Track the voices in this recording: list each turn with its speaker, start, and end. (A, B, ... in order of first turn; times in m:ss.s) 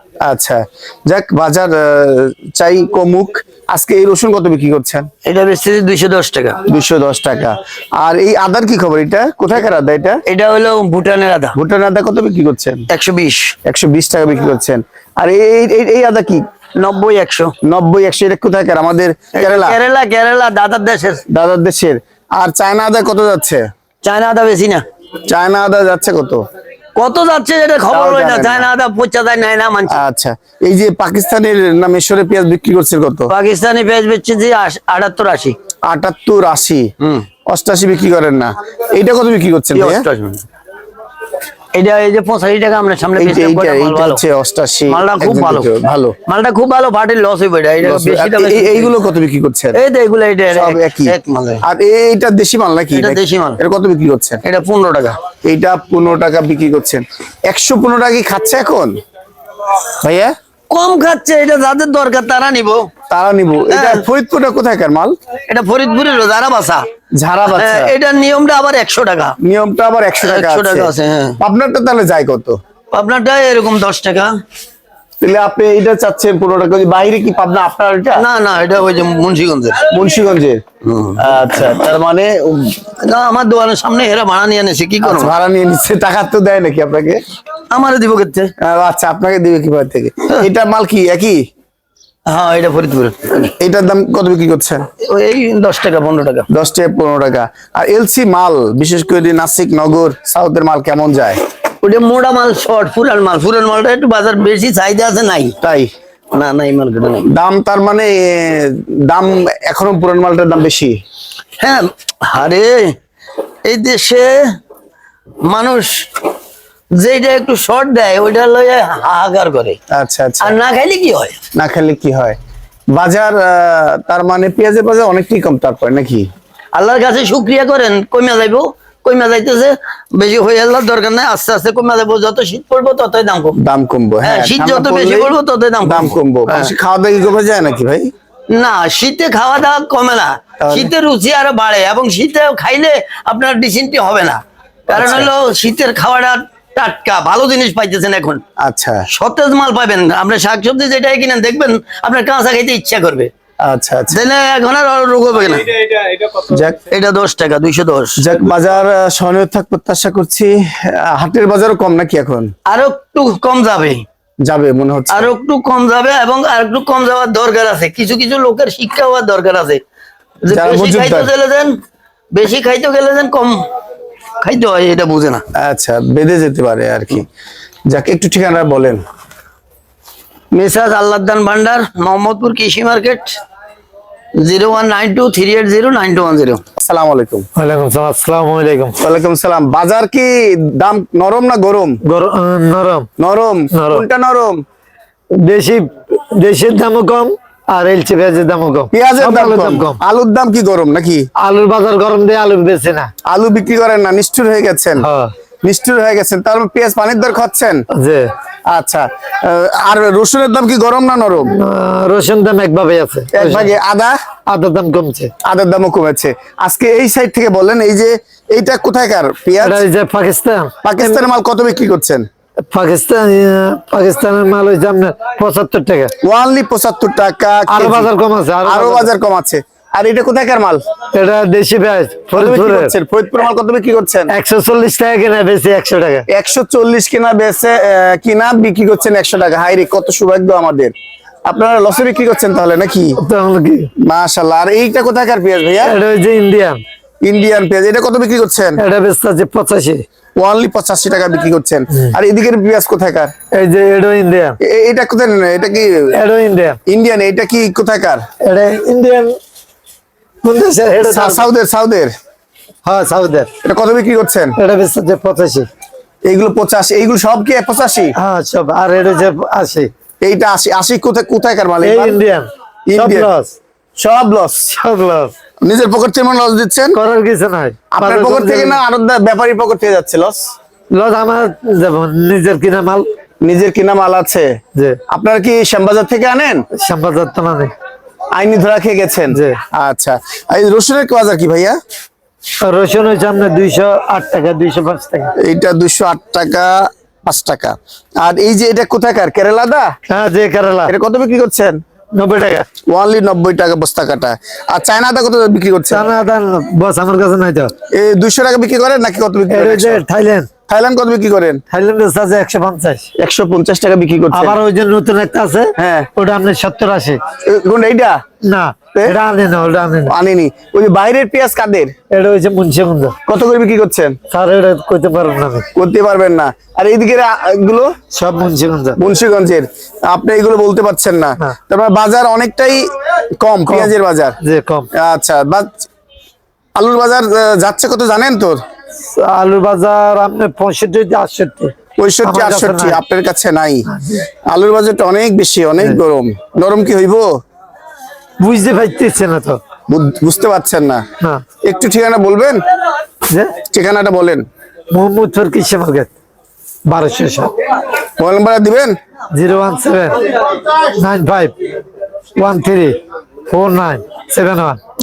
0:00.2-0:05.1 A
0:05.2-0:06.6 B
0:06.6-0:10.2 A
0:10.3-0:11.6 B
0:11.6-0:12.8 A
0:12.9-0:13.5 B
0:13.6-0:16.4 A
0:16.8-0:17.5 B
0:17.6-0:19.8 A
0:19.4-0:21.2 B
0:21.3-0:23.6 A
0:24.0-0:24.8 B
0:25.3-0:26.4 A
0:27.0-0:30.0 B
0:27.9-0:28.7 A
0:29.9-0:33.3 A
0:33.3-0:35.6 B
0:35.9-0:36.9 A
0:37.0-0:37.3 B
0:37.5-0:40.0 A
0:39.7-0:40.4 B
0:41.7-0:44.2 B
0:43.2-0:46.2 A
0:44.9-0:45.7 B
0:46.3-0:48.9 B
0:47.8-0:49.8 A
0:49.7-0:51.6 B
0:50.5-0:54.4 A
0:52.9-0:53.6 B
0:54.4-0:55.2 B
0:55.4-0:59.0 A
0:59.8-1:00.3 A
1:00.7-1:02.9 B
1:03.1-1:05.1 A
1:03.7-1:04.0 B
1:05.5-1:06.9 B
1:07.2-1:07.9 A
1:07.5-1:09.4 B
1:09.4-1:12.6 A
1:10.2-1:11.4 B
1:12.9-1:14.3 B
1:15.2-1:18.2 A
1:18.2-1:19.9 B
1:19.9-1:20.6 A
1:20.8-1:21.2 B
1:21.2-1:22.8 A
1:23.0-1:25.3 B
1:25.0-1:27.2 A
1:27.7-1:28.5 B
1:28.6-1:31.4 A
1:32.3-1:33.5 B
1:33.6-1:34.9 A
1:35.0-1:36.5 B
1:36.5-1:41.4 A
1:41.8-1:45.6 B
1:45.6-1:45.9 A
1:46.3-1:47.3 B
1:47.3-1:51.0 A
1:51.6-1:53.0 B
1:53.6-1:54.6 B
1:55.4-1:56.1 B
1:56.9-1:59.8 B
1:59.9-2:00.5 A
2:00.4-2:01.4 B
2:01.5-2:02.4 A
2:02.9-2:06.3 A
2:06.7-2:13.6 B
2:13.6-2:18.1 A
2:14.2-2:16.7 B
2:18.5-2:28.4 B
2:20.6-2:20.9 A
2:24.9-2:25.3 A
2:28.6-2:29.0 A
2:29.1-2:33.3 B
2:33.6-2:34.2 A
2:34.1-2:38.3 B
2:36.5-2:36.8 A
2:38.2-2:42.5 A
2:42.7-2:44.0 B
2:44.4-2:45.3 A
2:45.1-2:49.8 B
2:50.4-2:51.8 B
2:50.5-2:51.3 A
2:52.3-2:53.7 B
2:54.4-2:55.4 B
2:55.6-2:57.3 A
2:57.9-2:59.0 A
3:00.5-3:03.4 B
3:04.4-3:06.6 B
3:06.8-3:07.5 A
3:07.6-3:09.0 C
3:09.0-3:12.0 A
3:12.0-3:13.1 C
3:13.2-3:14.6 A
3:13.7-3:14.1 C
3:15.3-3:20.0 C
3:18.9-3:21.3 A
3:21.4-3:23.1 C
3:23.3-3:25.1 A
3:25.0-3:25.3 C
3:25.6-3:27.8 A
3:28.0-3:28.3 C
3:28.7-3:31.6 A
3:31.5-3:33.7 C
3:33.3-3:34.2 A
3:34.5-3:35.3 C
3:35.4-3:39.8 A
3:39.6-3:41.2 C
3:40.8-3:42.2 A
3:42.7-3:46.1 C
3:46.2-3:48.1 A
3:47.7-3:49.1 C
3:48.6-3:50.8 A
3:51.1-3:52.9 C
3:52.4-3:54.3 A
3:54.3-3:56.3 C
3:56.3-4:00.9 A
4:01.4-4:03.2 A
4:03.2-4:03.9 C
4:04.0-4:06.0 A
4:05.8-4:06.8 C
4:07.2-4:08.8 A
4:08.8-4:10.0 C
4:10.4-4:13.3 A
4:13.5-4:14.6 C
4:14.6-4:16.1 A
4:16.1-4:16.8 C
4:16.9-4:18.2 A
4:18.4-4:19.4 C
4:20.4-4:21.5 C
4:21.0-4:22.1 A
4:22.8-4:23.5 C
4:23.6-4:24.6 A
4:24.6-4:25.7 C
4:26.2-4:28.1 A
4:28.2-4:29.9 C
4:30.2-4:32.2 A
4:31.8-4:33.6 C
4:32.9-4:33.3 A
4:34.0-4:34.7 A
4:34.7-4:35.3 C
4:35.6-4:37.0 A
4:36.9-4:38.8 C
4:37.9-4:40.4 A
4:40.9-4:43.0 C
4:43.4-4:44.5 A
4:45.1-4:46.6 A
4:46.8-4:47.7 C
4:48.3-4:51.8 A
4:49.3-4:49.6 C
4:52.6-4:55.3 C
4:55.4-4:59.9 A
5:00.1-5:00.9 C
5:00.9-5:01.8 A
5:02.1-5:02.7 C
5:02.9-5:06.1 A
5:05.9-5:07.7 C
5:07.9-5:10.0 A
5:09.5-5:10.5 C
5:10.7-5:11.6 A
5:11.7-5:13.1 C
5:13.2-5:14.6 A
5:14.3-5:17.2 C
5:15.8-5:16.1 A
5:17.4-5:18.2 A
5:18.4-5:20.1 C
5:20.1-5:21.9 A
5:22.1-5:23.2 C
5:23.3-5:24.2 A
5:24.3-5:25.7 C
5:25.7-5:27.9 A
5:28.1-5:29.0 C
5:29.0-5:32.9 A
5:33.4-5:34.4 A
5:33.7-5:34.9 C
5:34.9-5:35.9 A
5:36.8-5:38.6 A
5:39.1-5:43.0 C
5:42.0-5:43.9 A
5:43.9-5:44.2 C
5:44.4-5:47.3 A
5:48.4-5:49.6 C
5:49.9-5:51.0 A
5:51.6-5:52.6 A
5:53.7-5:54.4 A
5:54.9-5:56.1 C
5:56.9-5:57.5 C
5:58.2-5:58.9 A
5:59.3-6:01.5 C
6:02.4-6:03.0 C
6:03.5-6:04.8 C